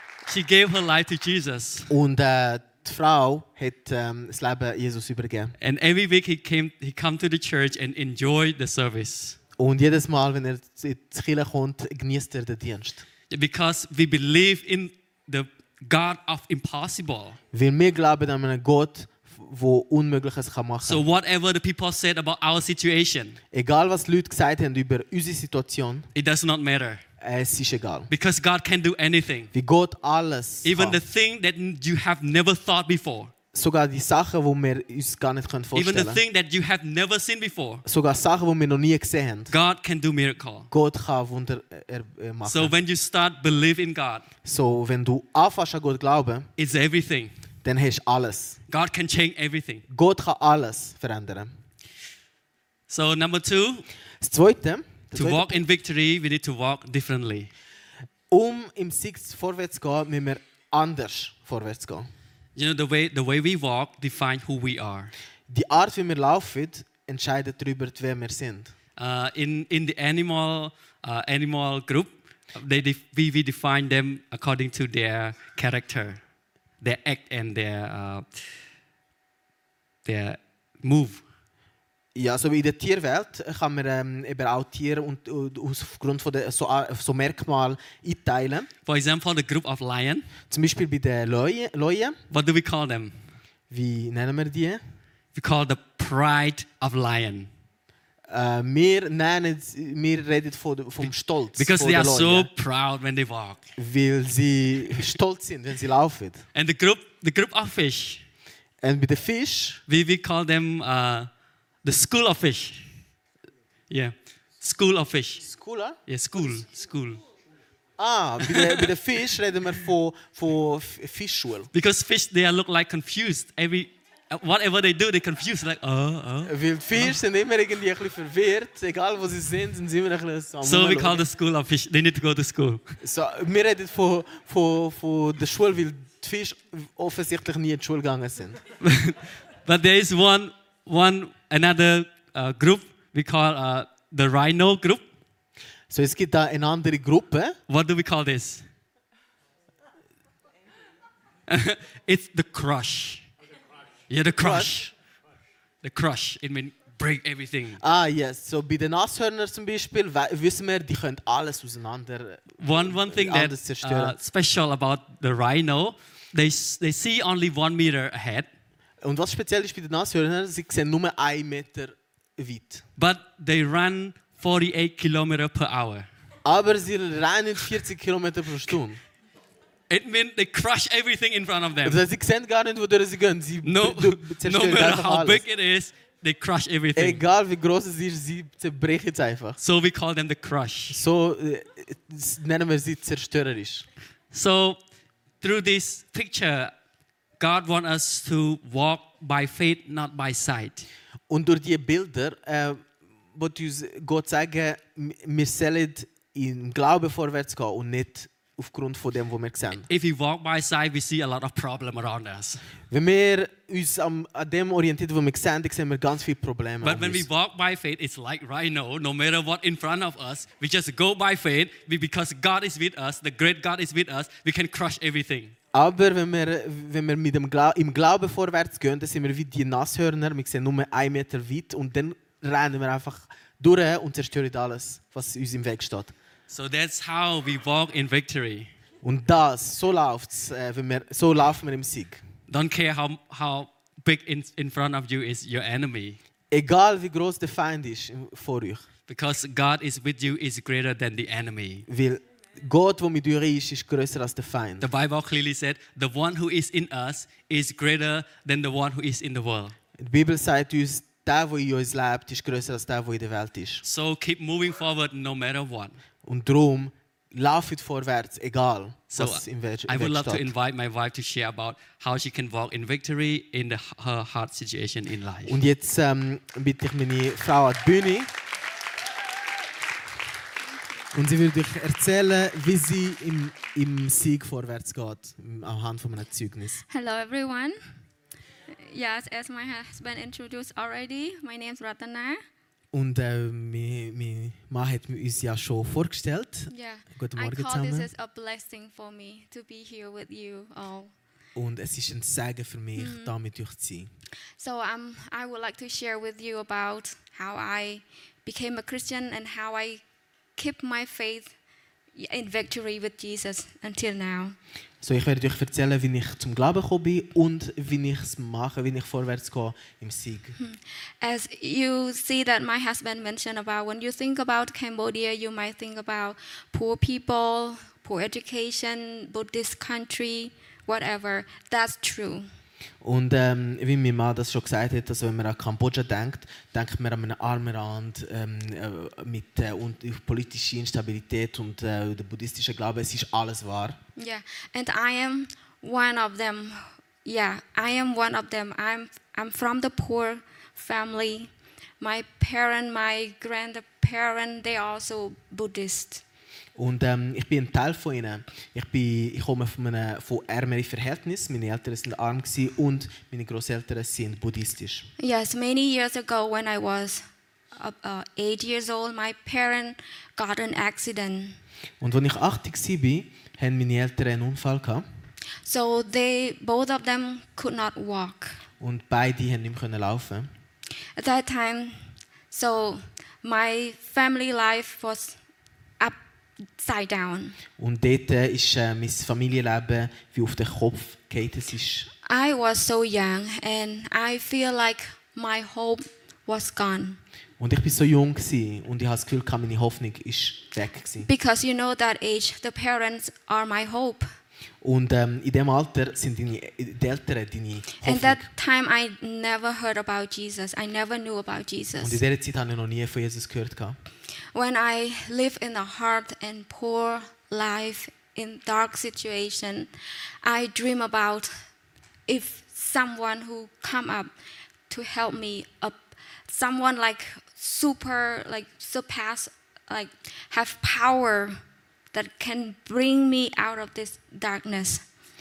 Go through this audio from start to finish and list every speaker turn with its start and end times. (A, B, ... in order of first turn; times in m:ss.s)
0:00.3-0:01.9 A
0:01.9-0:05.6 B
0:05.6-0:09.4 A
0:09.6-0:13.0 B
0:13.3-0:17.4 A
0:17.5-0:21.0 B
0:20.8-0:23.4 A
0:23.5-0:26.1 B
0:26.2-0:27.0 A
0:27.2-0:28.1 B
0:28.1-0:29.5 A
0:29.5-0:31.0 B
0:30.6-0:33.3 A
0:33.5-0:36.2 B
0:35.7-0:37.8 A
0:37.8-0:39.5 B
0:39.5-0:40.7 A
0:40.7-0:42.7 B
0:42.4-0:44.3 A
0:44.4-0:46.5 B
0:46.6-0:47.4 A
0:47.6-0:48.6 B
0:48.7-0:49.8 A
0:49.9-0:51.5 B
0:52.9-0:53.9 A
0:54.2-0:55.6 B
0:55.2-0:57.5 A
0:58.3-1:02.1 B
1:02.6-1:05.1 A
1:05.5-1:08.7 B
1:09.0-1:16.2 A
1:16.8-1:18.3 A
1:20.0-1:21.2 A
1:22.2-1:28.7 B
1:28.8-1:30.3 A
1:30.5-1:32.2 B
1:32.3-1:33.2 A
1:33.7-1:34.8 B
1:35.3-1:37.5 A
1:38.3-1:42.5 B
1:41.0-1:43.7 A
1:43.8-1:46.5 B
1:46.5-1:48.2 A
1:48.8-1:49.8 B
1:49.9-1:51.3 A
1:51.8-1:52.9 A
1:53.9-1:55.4 A
1:55.4-1:56.0 B
1:56.1-1:57.2 A
1:58.0-2:01.7 B
1:58.4-1:58.9 A
2:01.7-2:07.2 A
2:06.4-2:11.2 B
2:10.6-2:13.0 A
2:13.0-2:18.6 B
2:18.8-2:25.0 A
2:25.9-2:27.6 B
2:27.7-2:28.6 A
2:31.5-2:33.3 A
2:34.1-2:34.9 A
2:34.4-2:34.8 B
2:35.8-2:37.8 A
2:37.8-2:44.2 B
2:42.6-2:48.5 A
2:49.0-2:52.8 B
2:53.0-2:56.1 A
2:56.4-2:59.0 B
2:59.9-3:02.0 A
3:01.8-3:05.4 B
3:03.6-3:07.2 A
3:07.0-3:09.6 B
3:09.6-3:11.0 A
3:10.9-3:13.9 B
3:14.3-3:14.8 A
3:15.4-3:16.7 A
3:17.4-3:20.9 A
3:21.3-3:29.9 B
3:29.8-3:32.6 A
3:32.9-3:37.3 B
3:36.8-3:45.6 A
3:45.7-3:56.1 B
3:56.5-3:58.7 A
3:59.0-4:02.2 B
4:02.5-4:06.2 A
4:06.5-4:08.9 B
4:09.1-4:11.9 A
4:11.9-4:14.9 B
4:14.8-4:19.8 A
4:20.0-4:23.8 B
4:23.8-4:26.0 A
4:26.2-4:30.5 B
4:29.1-4:35.6 A
4:35.5-4:38.3 B
4:41.1-4:46.8 B
4:46.9-4:47.8 C
4:48.7-4:52.4 C
4:52.9-4:58.1 B
4:56.7-5:01.1 C
5:01.6-5:04.1 B
5:03.0-5:03.3 C
5:04.6-5:10.0 C
5:10.6-5:11.5 C
5:12.2-5:14.6 C
5:15.0-5:20.6 B
5:20.6-5:32.5 C
5:33.0-5:44.0 B
5:44.2-5:56.2 C
5:56.8-6:05.1 B
6:05.2-6:11.6 C
6:12.0-6:15.0 B
6:15.6-6:18.6 C
6:18.8-6:20.5 B
6:21.2-6:25.4 C
6:26.8-6:27.6 C
6:27.8-6:32.1 B
6:32.3-6:37.2 C
6:37.6-6:41.3 B
6:41.3-6:44.3 C
6:44.8-6:48.5 B
6:48.0-6:52.2 C
6:52.0-6:54.0 B
6:54.5-6:59.9 C
7:00.4-7:01.5 C
7:02.3-7:04.3 C
7:04.9-7:11.6 C
7:12.1-7:15.0 C